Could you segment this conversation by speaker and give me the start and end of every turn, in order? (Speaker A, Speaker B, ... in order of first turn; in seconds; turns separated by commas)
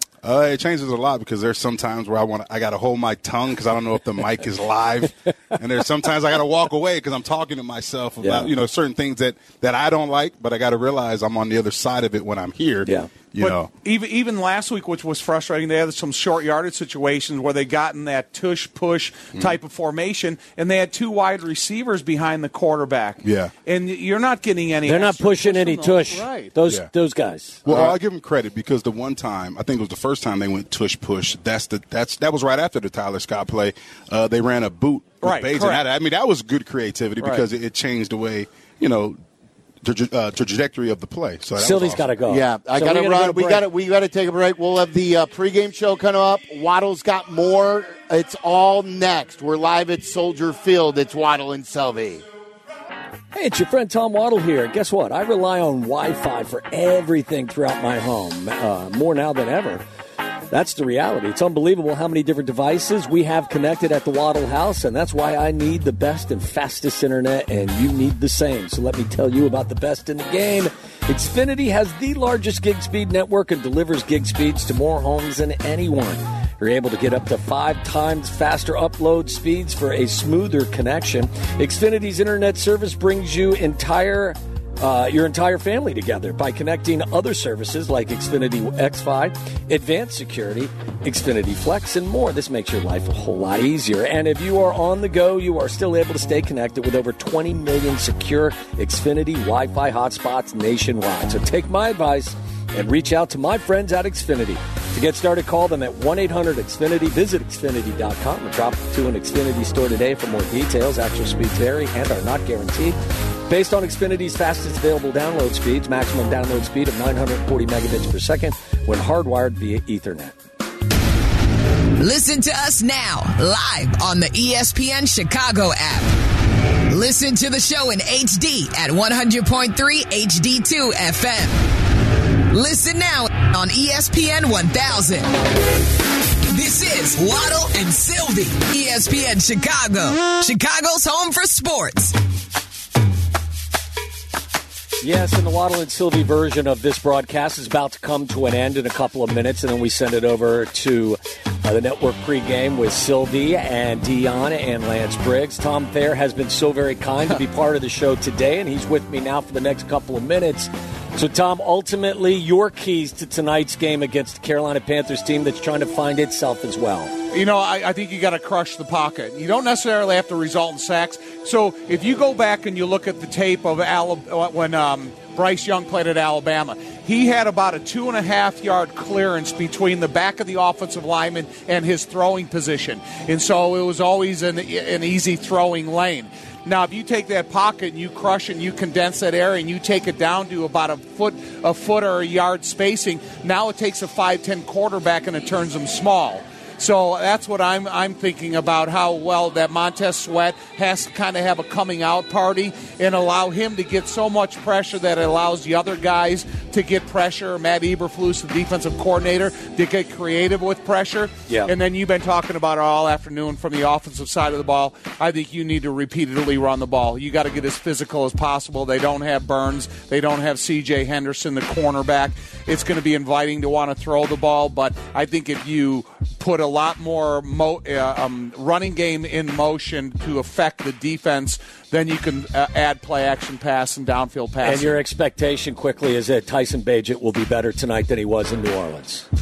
Speaker A: 0.2-13.7, Speaker B: 8.2-8.5, Speaker B: 12.8-13.1, Speaker C: 13.4-26.6, Speaker A: 23.2-23.5, Speaker B: 24.9-27.6, Speaker A: 27.6-39.2, Speaker C: 27.7-28.0, Speaker C: 35.2-35.9, Speaker C: 37.2-37.5, Speaker A: 39.8-42.1, Speaker B: 41.6-43.6, Speaker D: 42.3-52.2, Speaker B: 53.3-59.8, Speaker B: 60.5-120.4, Speaker E: 122.0-126.3, Speaker E: 126.9-131.7, Speaker E: 132.5-135.4, Speaker E: 136.4-142.2, Speaker B: 145.0-167.1, Speaker C: 167.3-235.0, Speaker B: 234.6-239.3